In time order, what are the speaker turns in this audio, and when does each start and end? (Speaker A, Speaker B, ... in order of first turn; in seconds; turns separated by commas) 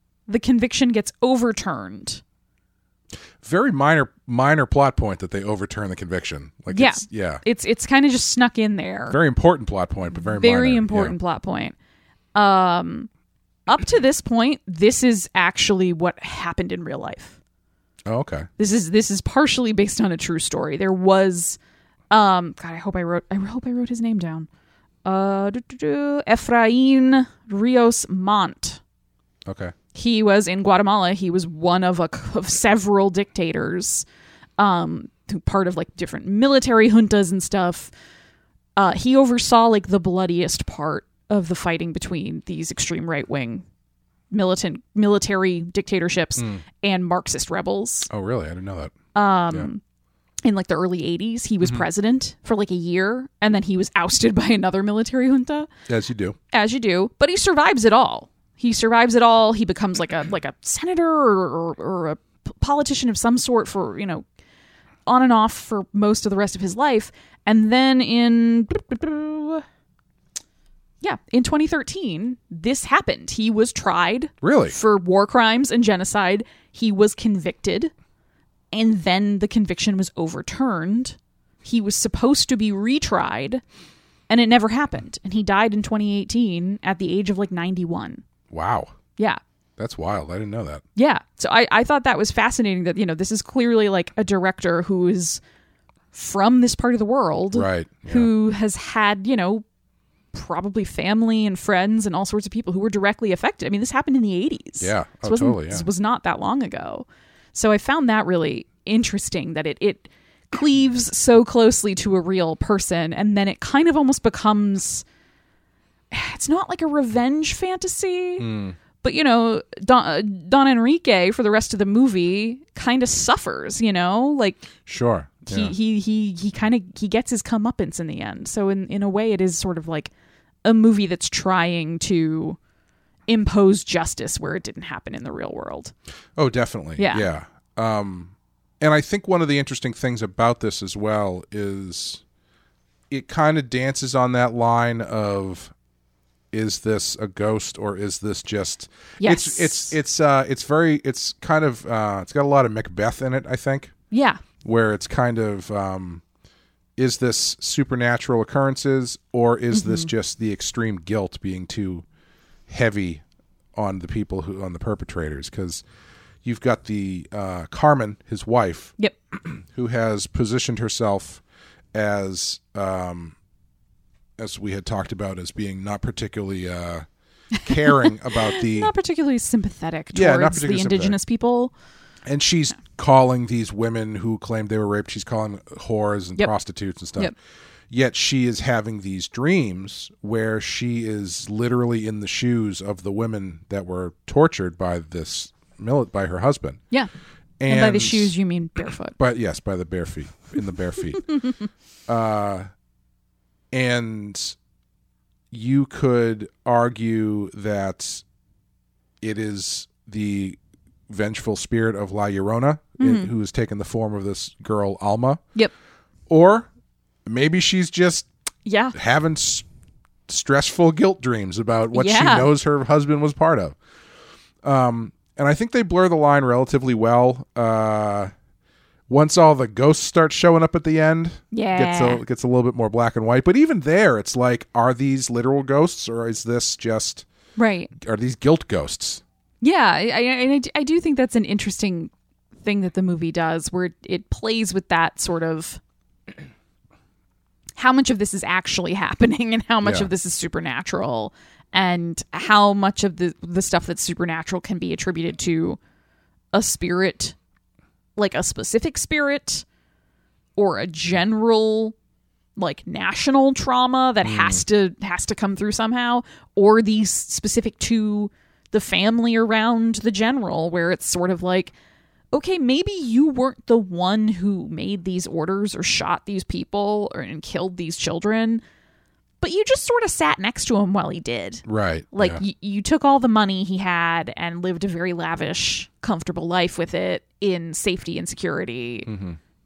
Speaker A: 0.3-2.2, Speaker B: 3.4-7.4, Speaker A: 6.7-9.2, Speaker B: 9.1-11.1, Speaker A: 10.1-11.7, Speaker A: 12.3-13.1, Speaker A: 13.7-17.4, Speaker B: 18.1-18.5, Speaker A: 18.6-21.6, Speaker A: 22.1-24.5, Speaker A: 25.0-28.8, Speaker B: 29.4-29.7, Speaker A: 29.9-34.0, Speaker A: 34.6-37.9, Speaker A: 38.8-43.6, Speaker A: 44.3-48.1, Speaker B: 46.4-46.6, Speaker B: 48.1-48.9, Speaker A: 49.1-49.8, Speaker A: 50.4-55.7, Speaker B: 55.9-56.4, Speaker A: 56.5-64.2, Speaker A: 65.0-69.6, Speaker A: 71.0-77.9, Speaker B: 74.4-74.8, Speaker A: 78.7-83.6, Speaker A: 84.3-88.2, Speaker B: 88.5-88.9, Speaker B: 89.8-90.8, Speaker A: 91.0-95.4, Speaker A: 96.1-99.6, Speaker B: 97.5-98.3, Speaker A: 100.3-115.0, Speaker B: 104.8-105.8, Speaker A: 116.1-118.5, Speaker B: 118.4-118.8, Speaker A: 119.0-124.7, Speaker B: 124.8-125.7, Speaker A: 125.5-130.1, Speaker A: 130.6-132.6, Speaker A: 133.3-135.9, Speaker B: 136.3-142.2, Speaker A: 137.0-137.2, Speaker B: 143.1-145.7, Speaker B: 146.5-153.9, Speaker A: 149.2-149.9, Speaker A: 154.1-154.4, Speaker B: 154.6-156.2, Speaker B: 157.0-162.0, Speaker A: 159.7-160.1, Speaker B: 162.7-163.2, Speaker B: 163.7-165.8, Speaker B: 166.4-171.4, Speaker B: 171.9-173.3, Speaker B: 174.4-177.1, Speaker A: 177.6-181.7, Speaker B: 177.6-178.9, Speaker B: 180.1-181.2, Speaker B: 182.2-187.3, Speaker B: 187.9-196.8, Speaker B: 197.6-198.3, Speaker A: 197.7-199.2, Speaker B: 199.2-201.4, Speaker B: 202.1-202.7, Speaker B: 203.7-204.6, Speaker B: 205.5-208.2, Speaker B: 209.2-215.4, Speaker A: 213.0-213.3, Speaker B: 216.3-216.7, Speaker B: 217.2-218.3, Speaker A: 218.7-218.9, Speaker B: 218.9-219.7, Speaker B: 220.3-223.8, Speaker A: 221.9-222.5, Speaker B: 224.6-228.3, Speaker B: 229.1-237.2, Speaker A: 231.5-232.2, Speaker A: 237.6-237.9, Speaker B: 237.9-239.2, Speaker A: 239.6-242.1, Speaker A: 242.6-245.8, Speaker A: 247.8-255.8, Speaker B: 249.8-250.1, Speaker A: 256.5-257.3, Speaker A: 258.1-259.6, Speaker A: 260.6-261.9, Speaker A: 262.6-271.7, Speaker B: 264.2-264.6, Speaker A: 272.3-278.6, Speaker A: 279.4-289.1, Speaker B: 281.6-282.4, Speaker B: 289.1-289.4